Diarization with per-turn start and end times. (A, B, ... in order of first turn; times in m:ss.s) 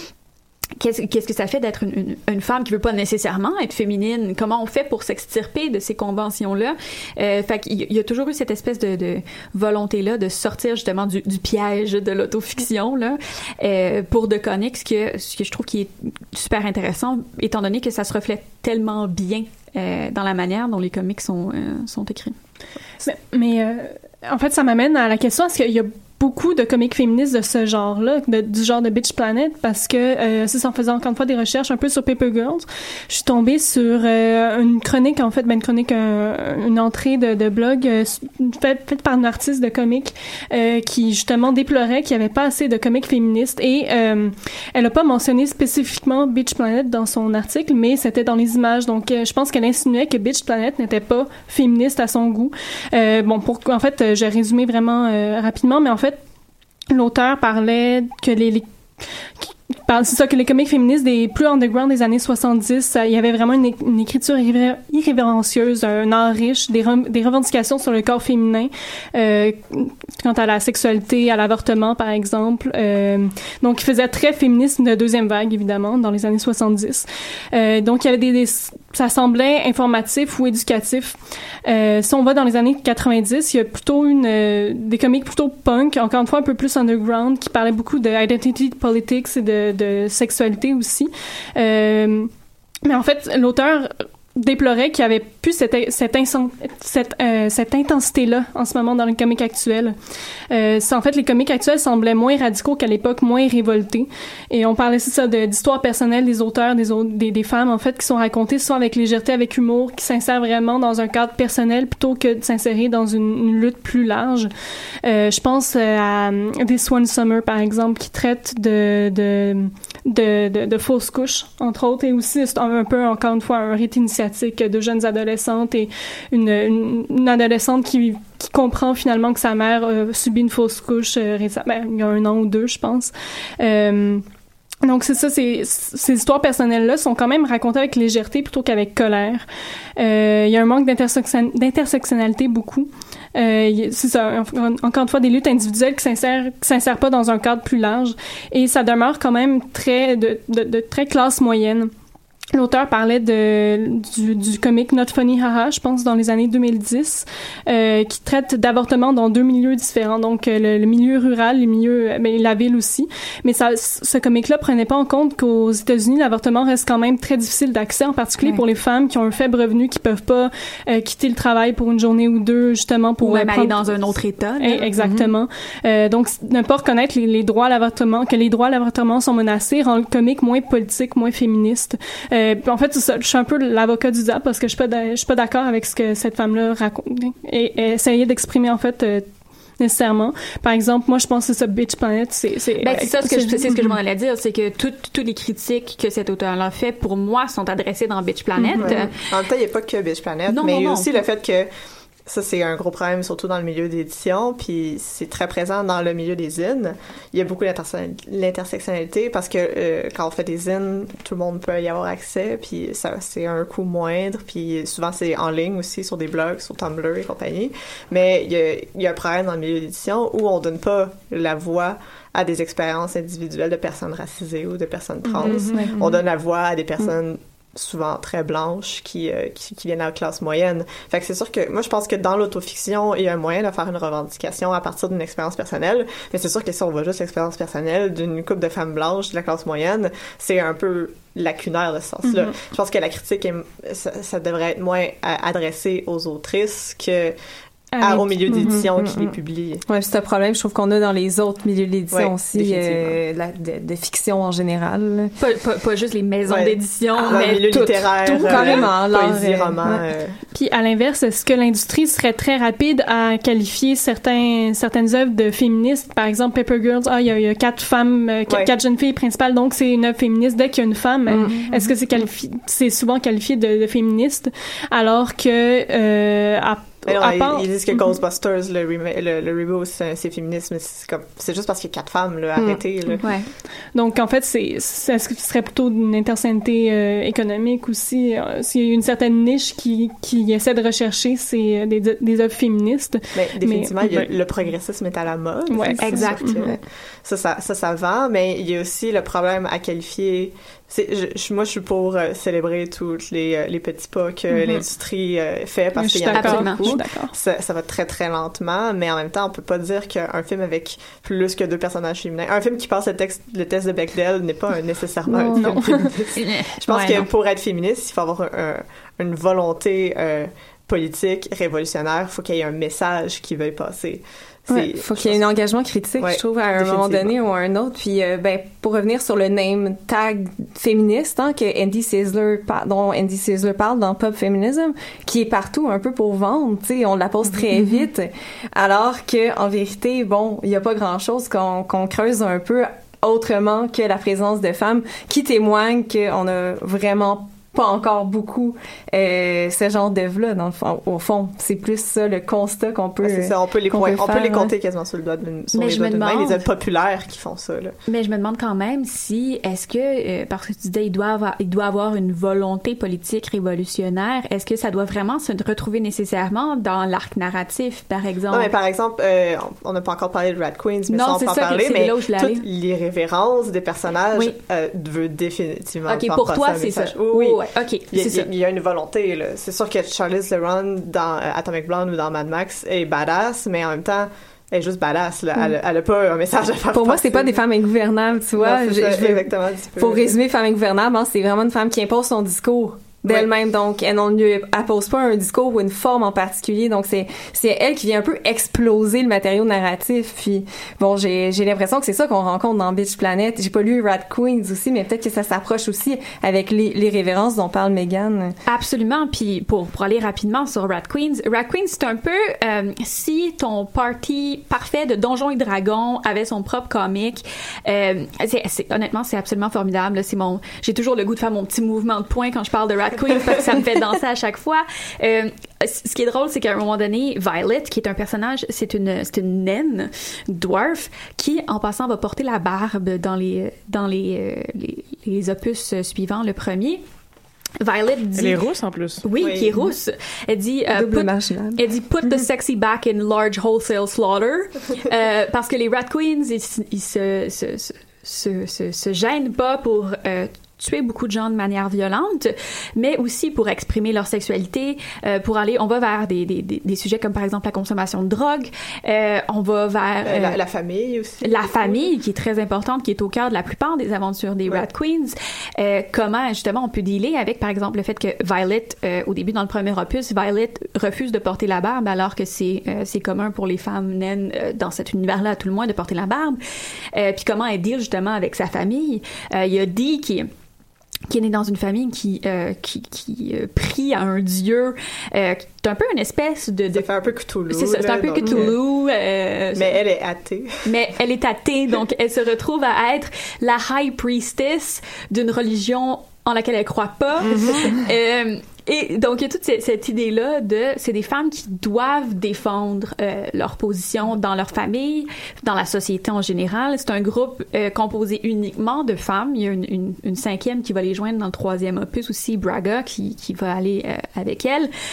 0:00.8-0:22.4 A
0:23.0-0:56.2 B
0:56.9-0:58.7 B
0:59.4-1:32.3 B
1:32.8-1:40.0 B
1:40.5-1:54.5 B
1:55.0-2:14.3 B
2:14.8-2:19.5 B
2:20.0-2:31.9 B
2:32.5-2:53.9 B
2:53.2-2:54.9 A
2:54.6-3:09.3 B
2:55.0-2:55.3 C
3:09.8-3:14.0 B
3:12.8-3:19.1 A
3:18.6-3:18.9 B
3:18.8-3:21.7 D
3:20.5-3:21.1 A
3:22.3-4:07.4 D
3:45.4-3:46.0 E
3:45.4-3:45.8 B
3:45.4-3:46.1 C
4:02.3-4:02.5 B
4:08.0-4:08.8 B
4:08.0-4:09.8 D
4:08.5-4:09.4 E
4:09.9-4:15.3 E
4:12.1-4:13.2 D
4:15.4-4:18.9 A
4:16.5-4:20.4 D
4:17.2-4:20.0 E
4:20.5-4:37.7 B
4:31.3-4:31.9 E
4:37.1-4:43.3 D
4:42.6-4:42.8 E
4:43.2-4:43.5 A
4:43.9-4:54.3 B
4:53.3-5:25.4 D
4:55.7-4:56.7 B
4:56.0-4:56.6 A
5:06.0-5:07.3 B
5:06.3-5:07.0 A
5:15.3-5:15.8 E
5:15.5-5:16.1 B
5:16.3-5:17.3 A
5:24.7-5:54.7 E
5:26.2-5:27.3 D
5:53.2-5:58.0 D
5:55.7-5:56.6 A
5:58.1-6:08.7 A
6:08.5-6:27.6 D
6:11.1-6:12.6 A
6:16.1-6:18.5 A
6:26.9-6:48.6 E
6:28.6-6:30.4 D
6:48.7-7:17.0 A
7:17.8-7:18.6 A
7:18.4-7:19.2 C
7:19.2-7:40.6 A
7:19.4-7:19.9 D
7:20.9-7:21.8 E
7:40.2-7:42.1 D
7:41.4-7:56.6 A
7:57.1-8:00.5 A
8:01.3-8:07.1 A
8:06.9-8:08.8 D
8:07.7-8:10.0 A
8:09.7-8:10.9 D
8:10.8-8:34.9 A
8:17.5-8:17.8 C
8:17.5-8:17.8 D